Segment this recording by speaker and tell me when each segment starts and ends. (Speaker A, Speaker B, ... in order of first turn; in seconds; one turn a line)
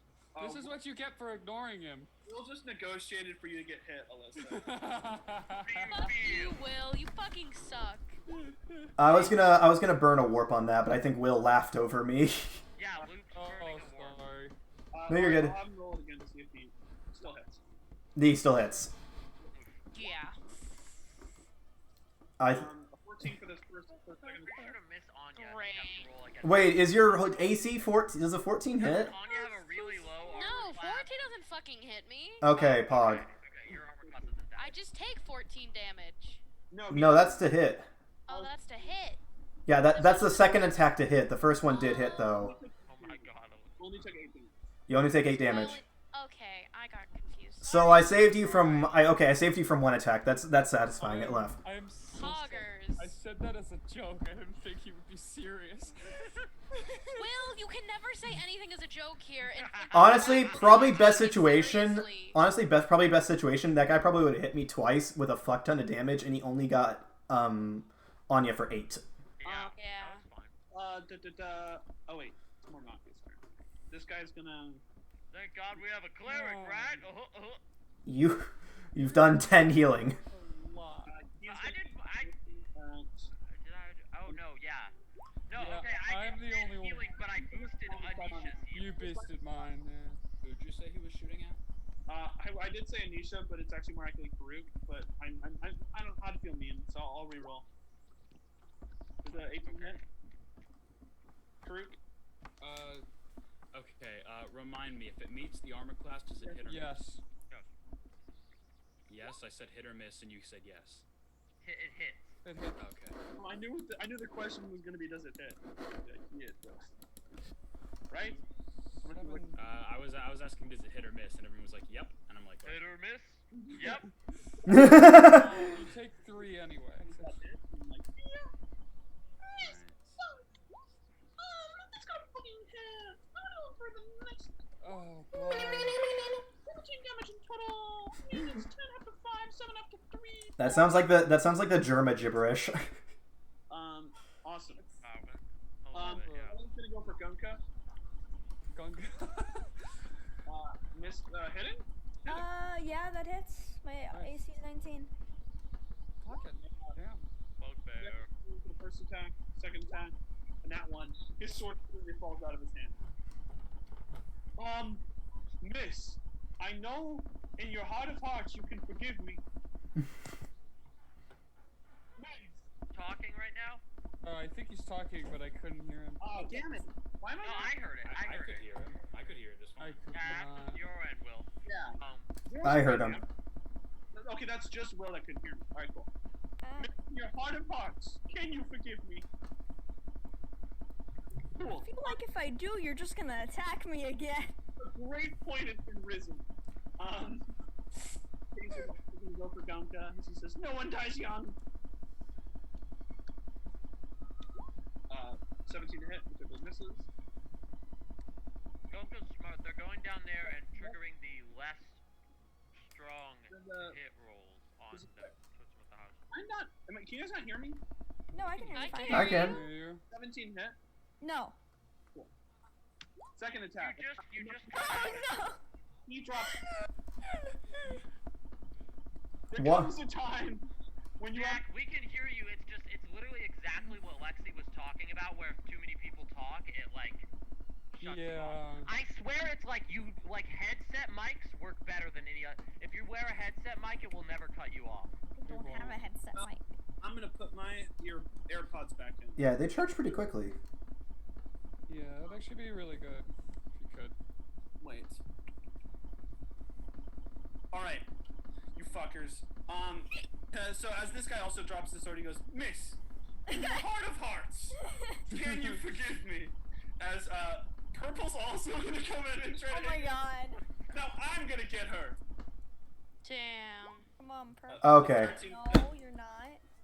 Speaker A: 0.3-0.7
Speaker B: 0.4-2.1
Speaker A: 2.2-4.7
Speaker B: 4.4-6.1
Speaker C: 5.6-6.6
Speaker D: 5.9-8.1
Speaker B: 8.3-8.9
Speaker E: 9.0-12.6
Speaker C: 12.8-14.2
Speaker B: 13.3-14.5
Speaker A: 14.9-17.6
Speaker E: 15.1-15.6
Speaker E: 18.1-18.9
Speaker C: 19.5-19.8
Speaker D: 19.9-20.3
Speaker E: 22.4-22.7
Speaker A: 22.5-24.7
Speaker C: 24.2-27.6
Speaker D: 25.4-26.1
Speaker E: 26.4-29.1
Speaker C: 28.8-31.1
Speaker D: 30.2-32.4
Speaker E: 32.4-33.2
Speaker C: 32.5-34.7
Speaker A: 33.6-34.8
Speaker D: 34.6-36.4
Speaker A: 36.7-37.5
Speaker E: 36.9-37.9
Speaker A: 38.3-38.8
Speaker D: 38.3-39.2
Speaker E: 39.7-42.5
Speaker D: 39.9-40.5
Speaker D: 41.7-42.3
Speaker A: 42.3-44.5
Speaker C: 42.9-43.8
Speaker E: 44.9-45.8
Speaker D: 45.4-48.0
Speaker E: 47.6-51.6
Speaker C: 48.3-49.1
Speaker B: 51.0-56.4
Speaker D: 52.1-53.0
Speaker D: 57.1-62.4
Speaker C: 59.5-60.6
Speaker E: 59.9-69.0
Speaker F: 60.0-60.7
Speaker C: 69.4-70.5
Speaker A: 69.4-69.8
Speaker D: 69.8-70.2
Speaker A: 70.7-74.8
Speaker C: 75.3-77.6
Speaker B: 76.2-77.1
Speaker E: 78.0-80.2
Speaker B: 79.0-79.7
Speaker B: 80.2-81.1
Speaker A: 81.0-83.3
Speaker C: 81.5-82.3
Speaker C: 83.5-84.9
Speaker C: 85.5-89.0
Speaker B: 85.5-87.1
Speaker A: 87.4-89.6
Speaker B: 88.7-90.3
Speaker F: 90.4-91.6
Speaker A: 92.1-97.7
Speaker A: 99.2-100.0
Speaker C: 99.6-100.0
Speaker A: 101.6-102.0
Speaker F: 102.6-103.0
Speaker F: 103.7-107.1
Speaker A: 106.4-106.7
Speaker B: 106.6-107.2
Speaker F: 109.1-111.0
Speaker C: 111.6-112.3
Speaker B: 112.4-112.8
Speaker F: 112.8-113.2
Speaker A: 113.3-116.9
Speaker A: 118.1-118.4
Speaker B: 118.2-119.8
Speaker A: 119.0-119.5
Speaker F: 119.5-122.9
Speaker C: 122.6-124.0
Speaker A: 123.5-123.8
Speaker B: 123.8-124.1
Speaker A: 124.6-125.9
Speaker E: 124.7-125.4
Speaker B: 125.1-127.4
Speaker A: 127.0-128.5
Speaker A: 129.4-130.4
Speaker F: 129.6-130.2
Speaker A: 131.4-134.5
Speaker B: 134.8-136.0
Speaker A: 135.3-141.0
Speaker E: 140.6-142.9
Speaker A: 143.7-144.8
Speaker C: 145.0-146.6
Speaker A: 145.9-147.6
Speaker B: 146.0-146.6
Speaker B: 148.7-149.7
Speaker A: 150.4-152.5
Speaker G: 152.3-155.1
Speaker B: 154.1-154.4
Speaker B: 156.2-157.2
Speaker A: 156.3-156.9
Speaker C: 157.6-158.3
Speaker A: 158.0-163.0
Speaker A: 164.6-165.0
Speaker A: 165.6-169.4
Speaker A: 172.2-172.6
Speaker C: 172.9-173.8
Speaker B: 174.2-176.3
Speaker A: 176.2-177.7
Speaker C: 177.4-178.7
Speaker F: 178.0-180.0
Speaker B: 179.8-180.8
Speaker C: 180.1-182.3
Speaker A: 181.6-183.2
Speaker E: 182.6-183.2
Speaker A: 184.1-186.1
Speaker G: 186.6-186.9
Speaker A: 186.8-189.2
Speaker A: 191.6-192.2
Speaker G: 191.6-194.5
Speaker A: 194.8-196.4
Speaker A: 197.0-197.4
Speaker A: 198.5-201.6
Speaker A: 205.1-207.1
Speaker C: 208.9-212.0
Speaker A: 210.4-211.0
Speaker C: 212.7-216.2
Speaker A: 213.5-214.0
Speaker A: 214.9-215.3
Speaker A: 216.3-217.8
Speaker G: 218.3-219.6
Speaker D: 218.7-219.5
Speaker F: 218.9-219.5
Speaker E: 219.1-219.6
Speaker B: 219.4-220.0
Speaker A: 220.1-220.8
Speaker G: 221.2-221.5
Speaker A: 223.4-225.1
Speaker C: 223.8-225.4
Speaker G: 224.7-225.6
Speaker A: 226.1-226.6
Speaker A: 229.5-231.6
Speaker E: 229.6-229.9
Speaker C: 231.3-237.3
Speaker C: 237.9-245.1
Speaker B: 238.0-238.9
Speaker G: 245.4-246.7
Speaker B: 245.4-246.0
Speaker A: 247.0-249.5
Speaker E: 249.4-250.6
Speaker B: 251.9-254.1
Speaker A: 254.8-255.2
Speaker A: 257.7-258.1
Speaker A: 258.7-264.7
Speaker G: 263.5-263.9
Speaker A: 265.3-270.3
Speaker B: 265.4-265.8
Speaker G: 269.7-270.6
Speaker A: 270.9-272.2
Speaker D: 273.2-274.0
Speaker G: 274.2-276.6
Speaker A: 274.7-275.9
Speaker E: 274.8-275.4